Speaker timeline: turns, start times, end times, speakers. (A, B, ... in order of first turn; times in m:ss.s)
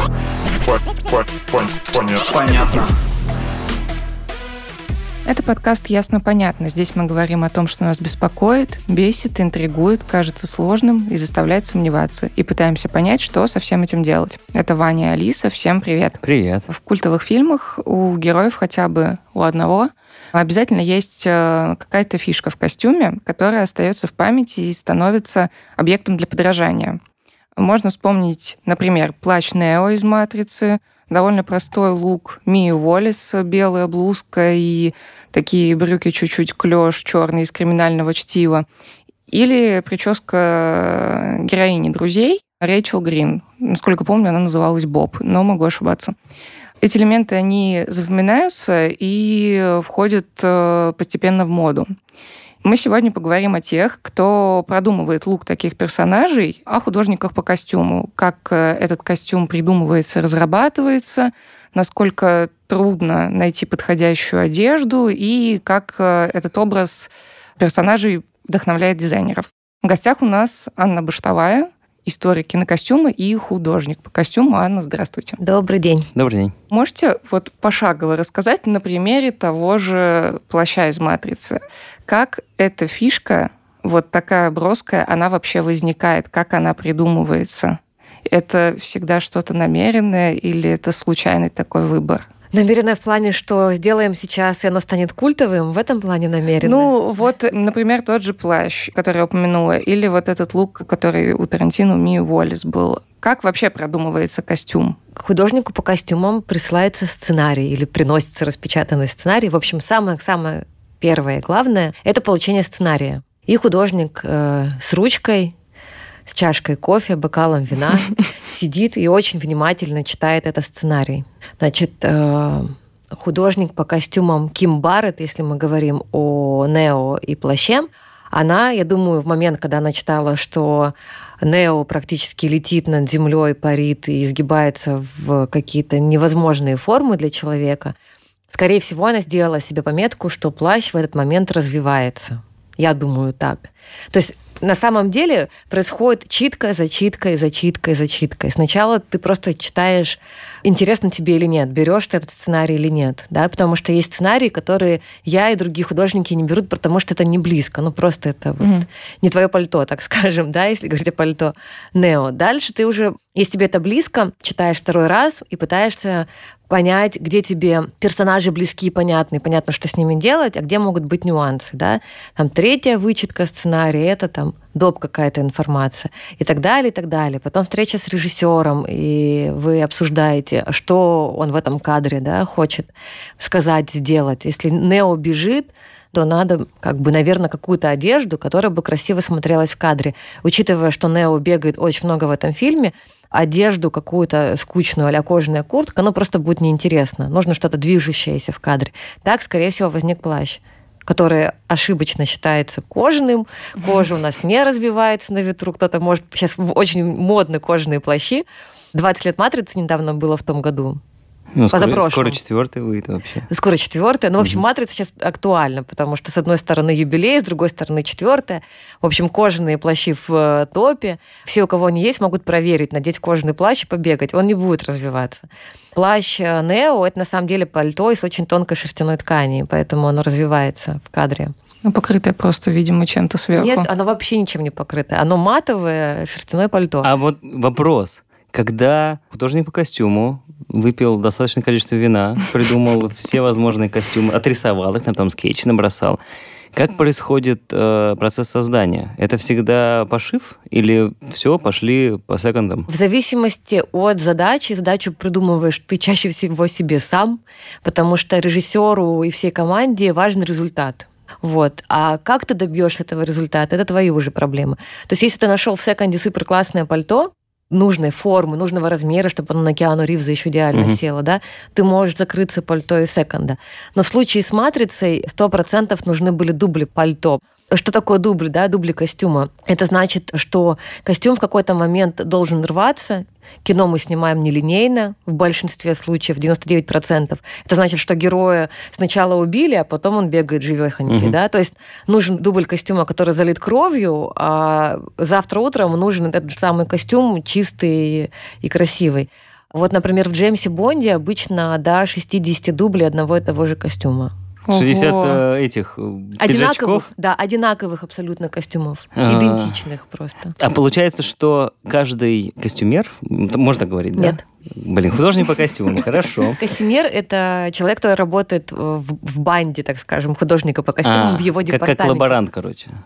0:00.6-0:02.9 A
0:05.2-0:16.2 B
0:16.2-0:16.7 C
0:16.7-0:27.0 B
0:27.6-0:38.6 B
0:39.3-0:46.1 B
0:46.8-0:51.9 B
0:52.6-1:15.4 B
1:15.4-1:16.1 D
1:16.1-1:16.5 C
1:16.7-1:32.2 B
1:32.5-1:36.9 D
1:36.6-1:45.0 B
1:45.2-1:55.5 D
1:56.3-2:17.9 D
2:18.5-3:31.0 D
3:31.5-3:33.5 C
3:31.7-3:32.4 D
3:33.5-3:51.5 D
3:51.8-3:53.9 B
3:53.6-3:57.1 D
3:57.0-4:06.2 C
4:06.7-4:12.9 C
4:12.9-5:04.3 D
4:30.7-4:31.0 C
4:51.1-4:51.4 C
5:04.6-5:05.4 B
5:04.7-5:07.1 C
5:06.4-5:10.5 D
5:09.1-5:09.8 C
5:10.6-5:16.6 C
5:14.2-5:14.4 D
5:16.5-5:22.4 D
5:21.0-5:23.0 C